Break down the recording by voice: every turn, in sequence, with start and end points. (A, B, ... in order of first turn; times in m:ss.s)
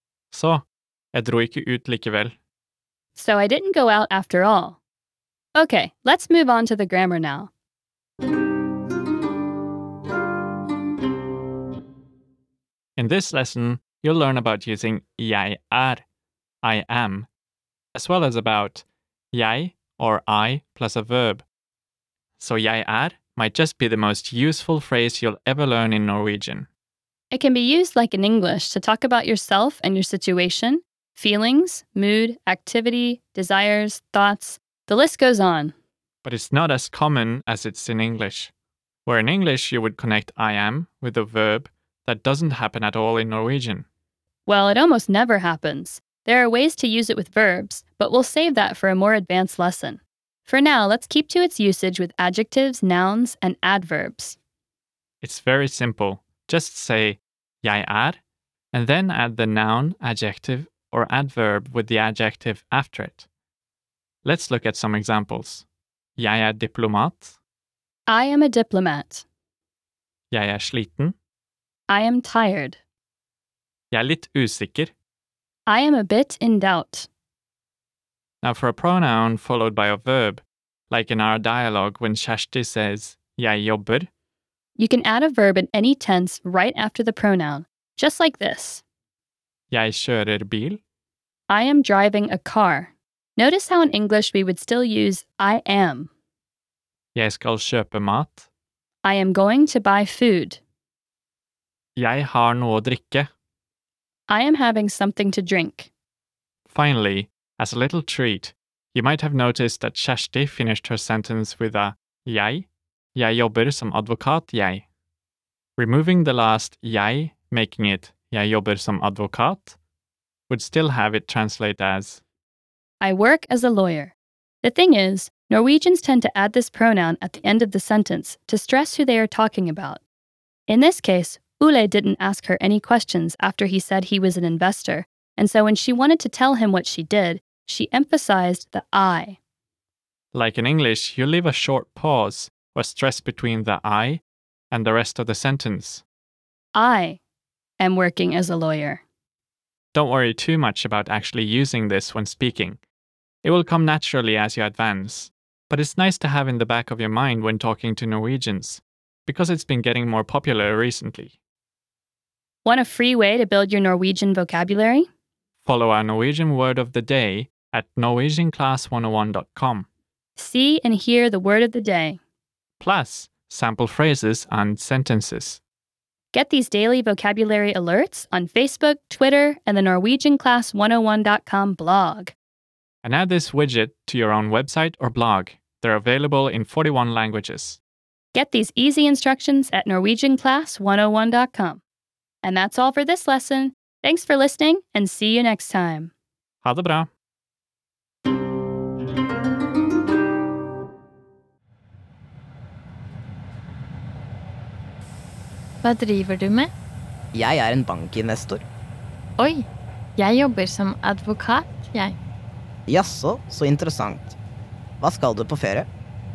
0:00.3-0:02.3 A
0:03.2-0:04.8 B
0:05.6-0:07.5 B
0:13.0-0:16.0 A
0:16.6-0:17.3 A
0:18.0-0:21.4 A
0:22.4-0:26.7 A
0:27.3-0:35.7 B
0:36.2-0:38.5 A
0:39.0-0:43.8 A
0:44.5-0:54.4 B
0:55.2-0:58.2 A
0:58.7-1:03.2 A
1:04.2-1:05.6 A
1:06.2-1:07.4 A
1:08.1-1:09.2 B
1:10.3-1:11.2 A
1:11.9-1:12.8 B
1:13.9-1:14.9 A
1:15.7-1:17.1 B
1:18.4-1:24.1 A
1:24.8-1:28.8 B
1:29.7-1:30.8 A
1:31.5-1:36.1 B
1:37.1-1:38.4 A
1:39.0-1:40.6 B
1:42.0-1:43.3 A
1:44.3-1:45.9 B
1:46.7-1:54.8 A
1:55.8-1:59.8 A
2:00.5-2:02.2 A
2:03.0-2:10.0 B
2:10.7-2:19.4 B
2:20.3-2:26.0 A
2:26.7-2:27.2 B
2:27.8-2:29.0 B
2:29.9-2:32.8 A
2:33.4-2:41.4 A
2:42.6-2:45.1 B
2:45.6-2:49.9 A
2:50.4-2:52.2 B
2:52.8-2:55.6 A
2:56.3-3:02.4 B
3:03.0-3:07.8 A
3:08.3-3:11.8 B
3:12.4-3:16.1 B
3:16.6-3:17.1 A
3:25.8-3:26.7 C
3:27.3-3:28.6 D
3:29.4-3:32.2 C
3:32.9-3:34.4 D
3:35.0-3:35.9 D